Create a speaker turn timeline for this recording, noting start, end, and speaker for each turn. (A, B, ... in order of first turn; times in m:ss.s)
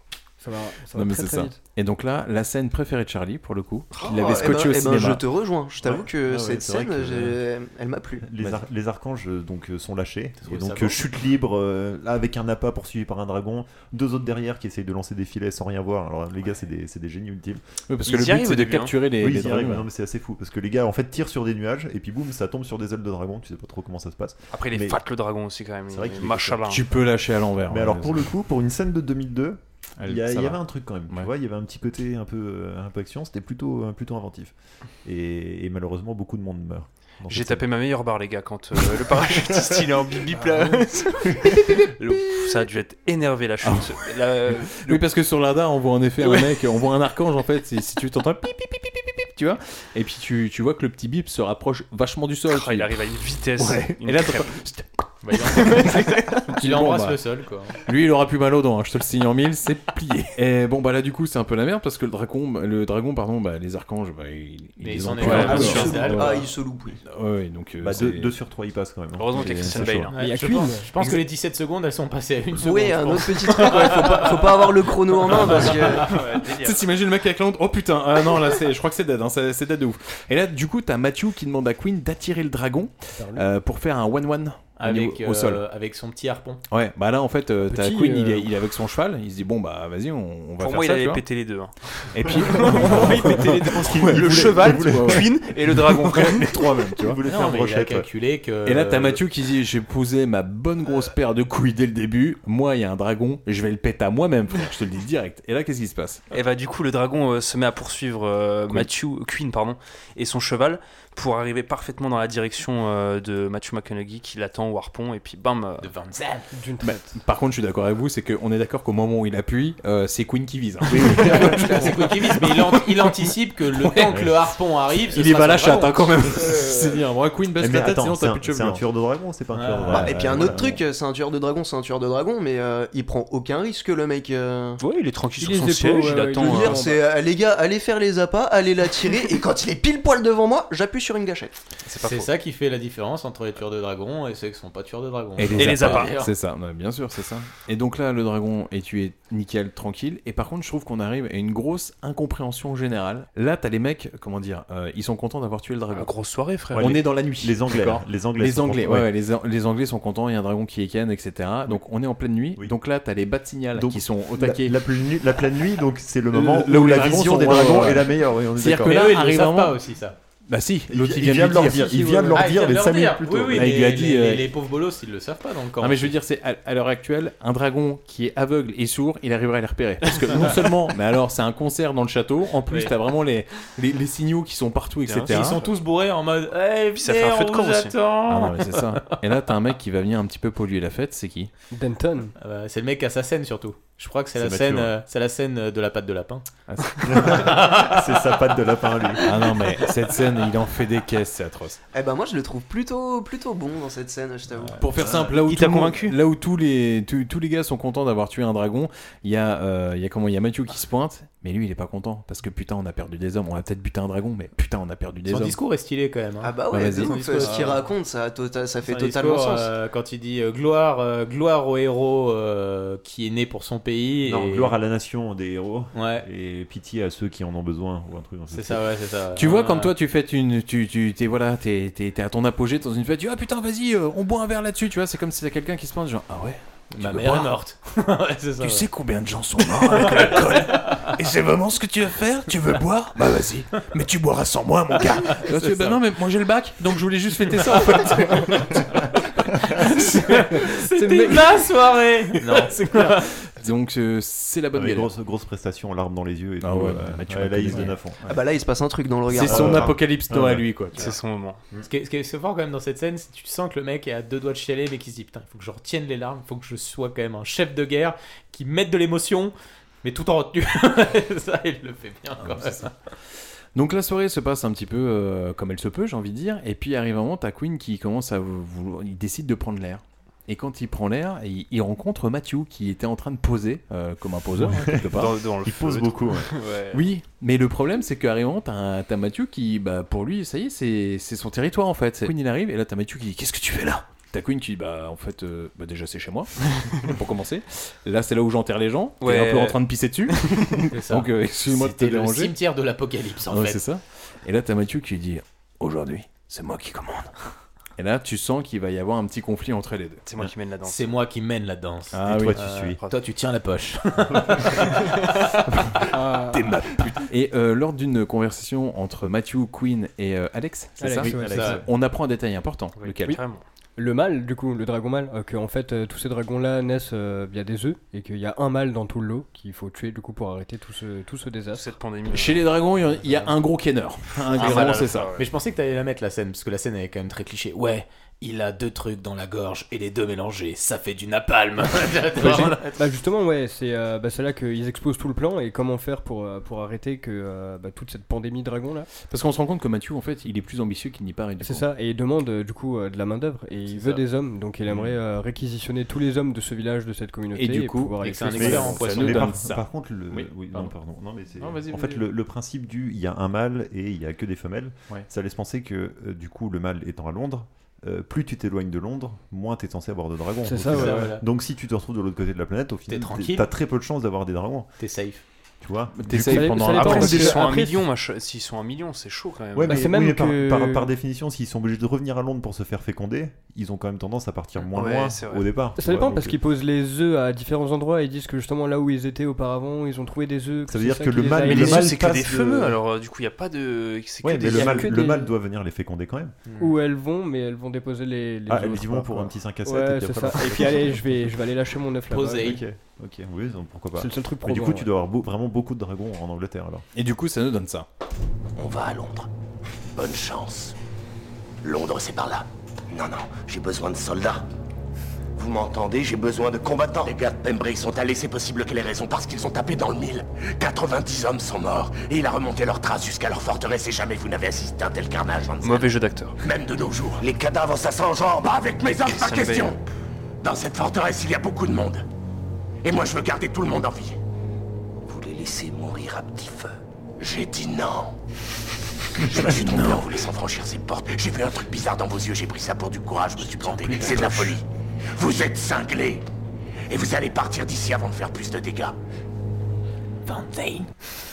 0:00.4-0:01.6 A
0:00.9-0:05.2 B
0:03.9-0:08.2 C
0:05.9-0:07.4 B
0:08.2-0:17.6 D
0:08.4-0:08.6 B
0:10.4-0:11.0 E
0:17.9-0:19.9 B
0:18.0-0:18.9 F
0:19.2-0:25.0 D
0:24.5-0:26.8 F
0:25.9-0:26.8 D
0:26.7-0:28.2 B
0:27.7-0:34.5 D
0:30.0-0:31.3 B
0:35.0-0:37.6 D
0:37.3-0:45.0 F
0:41.4-0:42.6 B
0:43.6-0:57.2 B
0:46.2-0:46.5 F
0:52.5-0:54.6 F
0:55.2-0:55.9 E
0:55.7-0:56.4 F
0:56.6-0:57.8 E
0:57.8-1:06.4 B
1:04.8-1:06.4 E
1:05.2-1:07.0 C
1:05.2-1:06.1 F
1:07.0-1:08.3 B
1:07.8-1:10.1 D
1:09.2-1:10.1 F
1:09.4-1:10.0 B
1:10.1-1:14.6 E
1:10.1-1:10.9 A
1:12.6-1:16.2 C
1:15.3-1:15.8 E
1:15.9-1:16.8 F
1:16.4-1:25.6 B
1:23.2-1:23.4 A
1:24.8-1:26.6 E
1:26.7-1:31.2 B
1:27.6-1:28.5 A
1:30.6-1:36.7 F
1:32.1-1:37.2 B
1:32.7-1:35.5 D
1:37.0-1:38.1 D
1:37.3-1:39.2 E
1:38.6-1:46.2 B
1:46.3-1:55.9 F
1:55.8-1:56.5 E
1:56.5-1:57.2 A
1:56.8-2:04.2 B
2:00.9-2:01.7 D
2:01.2-2:06.1 E
2:05.1-2:08.8 B
2:07.6-2:10.8 D
2:09.5-2:10.0 E
2:09.9-2:10.7 B
2:09.9-2:14.8 C
2:14.8-2:16.8 F
2:15.4-2:17.0 A
2:16.3-2:21.6 C
2:21.8-2:22.3 F
2:22.0-2:26.3 E
2:25.4-2:36.1 B
2:25.5-2:26.2 F
2:35.9-2:37.0 F
2:36.7-2:39.1 D
2:36.7-2:44.8 B
2:43.7-2:49.0 D
2:46.3-2:49.8 B
2:48.8-2:50.2 E
2:50.5-2:52.1 B
2:50.9-2:53.7 D
2:51.8-2:52.3 A
2:52.3-2:56.1 E
2:53.5-2:54.5 B
2:55.8-3:05.6 B
3:05.0-3:05.6 F
3:05.2-3:09.2 E
3:07.0-3:07.9 F
3:08.3-3:11.5 B
3:11.7-3:12.3 A
3:12.4-3:16.4 E
3:14.3-3:15.0 D
3:16.7-3:17.6 B
3:17.0-3:19.4 D
3:17.2-3:17.9 E
3:19.2-3:21.8 B
3:21.9-3:24.8 C
3:24.8-3:35.6 B
3:25.0-3:25.3 D
3:25.3-3:26.2 F
3:35.3-3:37.8 E
3:36.4-3:39.7 C
3:36.7-3:37.2 B
3:38.8-3:44.8 E
3:44.2-3:48.8 D
3:45.9-3:46.2 E
3:48.5-3:49.9 E
3:49.4-3:57.5 B
3:56.9-3:58.9 E
3:58.6-4:09.1 B
3:59.9-4:01.1 E
4:05.2-4:06.0 E
4:09.6-4:13.3 E
4:09.8-4:11.7 B
4:12.6-4:15.1 B
4:14.7-4:18.4 D
4:16.6-4:17.9 B
4:18.3-4:19.9 C
4:19.3-4:21.1 B
4:19.4-4:21.1 D
4:21.0-4:21.6 F
4:21.8-4:32.9 E
4:32.4-4:32.9 B
4:33.7-4:45.3 B
4:44.6-4:46.6 D
4:45.1-4:47.0 F
4:46.9-5:02.5 B
4:59.2-4:59.8 F
5:00.3-5:00.8 F
5:00.9-5:03.8 E
5:03.5-5:07.3 B
5:08.0-5:10.3 B
5:10.2-5:11.1 F
5:10.8-5:15.6 E
5:12.1-5:12.6 B
5:12.2-5:13.0 D
5:12.8-5:13.2 F
5:15.7-5:23.4 B
5:16.1-5:16.6 A
5:21.0-5:21.8 A
5:21.2-5:21.8 D
5:21.5-5:21.8 E
5:23.0-5:23.6 F
5:24.0-5:31.9 A
5:31.7-5:32.7 F
5:32.3-5:35.3 B
5:34.5-5:35.5 F
5:34.5-5:43.0 E
5:42.4-5:49.1 A
5:49.2-5:51.9 B
5:51.6-5:59.1 A
5:57.5-6:00.9 B
5:58.2-5:59.5 E
5:58.6-6:14.9 D
6:01.6-6:02.2 B
6:10.6-6:11.4 A
6:10.9-6:11.4 E
6:13.1-6:13.7 E
6:15.0-6:15.4 E
6:15.8-6:17.4 D
6:16.2-6:17.7 B
6:16.4-6:18.1 A
6:16.9-6:20.1 F
6:19.7-6:26.6 D
6:19.8-6:21.1 A
6:24.9-6:25.6 F
6:26.0-6:32.2 A
6:30.9-6:33.0 D
6:31.6-6:35.3 F
6:34.4-6:36.6 D
6:34.6-6:35.5 A
6:36.7-6:36.9 E
6:36.8-6:42.8 A
6:38.7-6:41.3 D
6:42.3-6:42.8 E
6:42.6-6:47.0 D
6:44.1-6:45.1 A
6:47.1-6:48.0 B
6:48.8-6:49.5 G
6:50.1-6:50.9 G
6:51.8-6:54.6 G
6:55.5-7:10.0 G
7:05.8-7:06.6 F
7:09.2-7:10.0 F
7:10.6-7:12.2 G
7:13.0-7:14.4 G
7:15.2-7:18.4 G
7:19.4-7:24.8 G
7:19.5-7:20.3 B
7:23.8-7:24.8 B
7:25.3-7:26.4 G
7:27.1-7:29.2 G
7:30.5-7:31.1 E